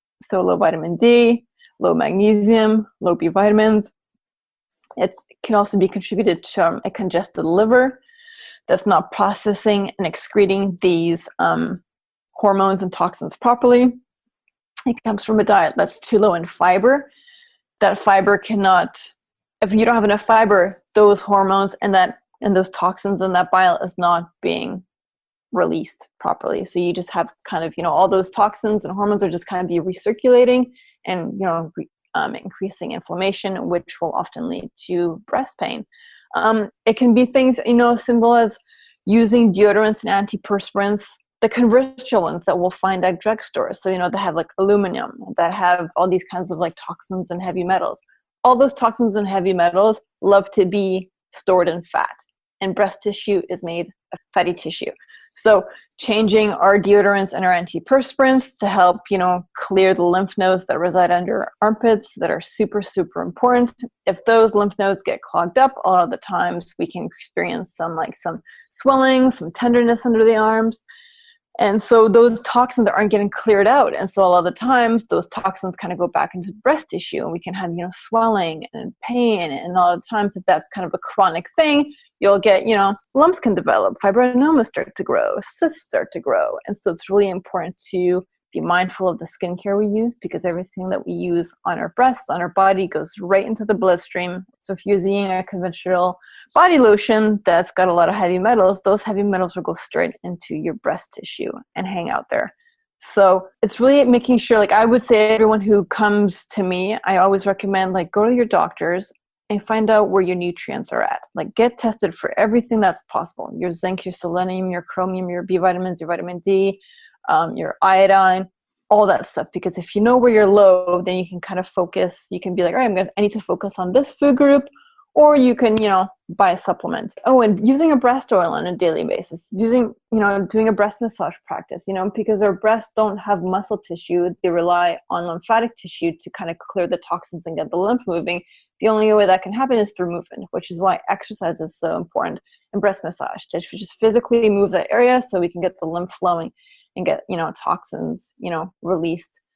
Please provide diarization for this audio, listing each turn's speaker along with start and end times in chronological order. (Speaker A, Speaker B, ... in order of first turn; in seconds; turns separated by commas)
Speaker A: 0.2-3.9, Speaker A: 5.0-8.0, Speaker A: 8.7-11.8, Speaker A: 12.3-14.0, Speaker A: 14.8-17.1, Speaker A: 17.8-24.8, Speaker A: 25.5-70.8, Speaker A: 71.6-149.4